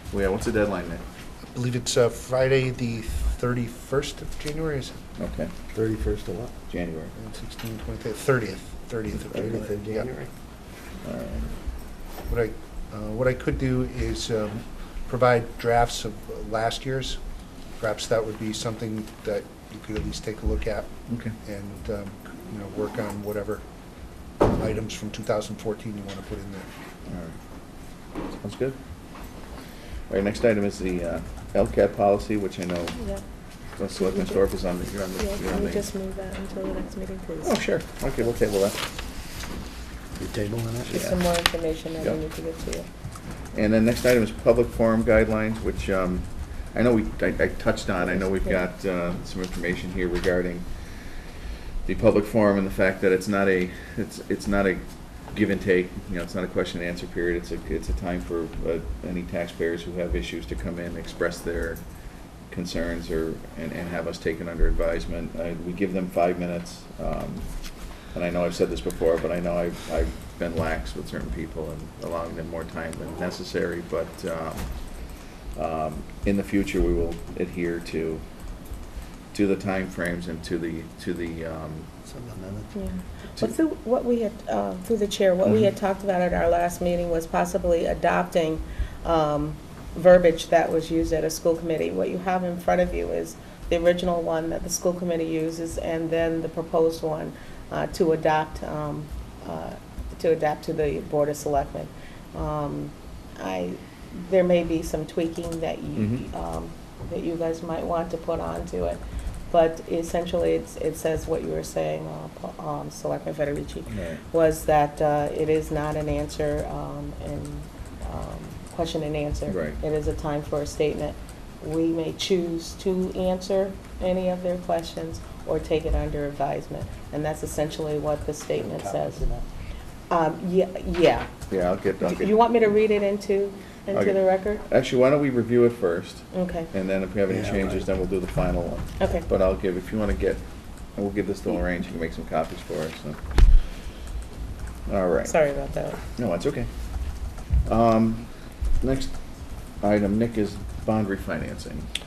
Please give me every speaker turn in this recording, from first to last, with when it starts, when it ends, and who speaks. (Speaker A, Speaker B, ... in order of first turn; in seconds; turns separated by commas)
Speaker A: 0.1-1.0, Speaker B: 1.5-5.0, Speaker A: 5.2-5.5, Speaker C: 5.7-6.5, Speaker A: 6.7-7.1, Speaker B: 7.1-10.1, Speaker C: 9.3-10.3, Speaker A: 11.0-11.5, Speaker B: 12.3-17.2, Speaker B: 17.8-20.9, Speaker A: 21.1-21.3, Speaker B: 21.4-23.6, Speaker B: 24.4-26.7, Speaker A: 27.1-27.3, Speaker A: 28.4-28.8, Speaker A: 30.1-33.0, Speaker D: 32.9-33.2, Speaker A: 33.8-35.9, Speaker D: 33.9-34.4, Speaker D: 35.1-37.6, Speaker A: 37.4-38.8, Speaker C: 40.2-41.0, Speaker A: 40.9-41.2, Speaker D: 40.9-42.9, Speaker A: 43.5-50.6, Speaker A: 51.8-61.8, Speaker A: 62.5-67.5, Speaker A: 68.1-74.7, Speaker A: 75.5-78.2, Speaker A: 79.3-81.9, Speaker C: 82.0-82.7, Speaker D: 82.7-109.0, Speaker A: 106.0-106.2, Speaker D: 109.5-129.2, Speaker A: 113.9-114.2, Speaker A: 119.5-119.8, Speaker C: 128.6-129.4, Speaker D: 130.1-131.3, Speaker A: 131.5-132.4, Speaker D: 132.0-134.6, Speaker A: 133.9-140.4, Speaker D: 136.3-136.7, Speaker C: 137.3-137.8, Speaker D: 139.0-139.2, Speaker A: 140.9-143.2, Speaker A: 144.9-145.4, Speaker D: 145.2-146.0, Speaker A: 146.1-146.7, Speaker A: 147.6-149.1, Speaker A: 149.8-151.9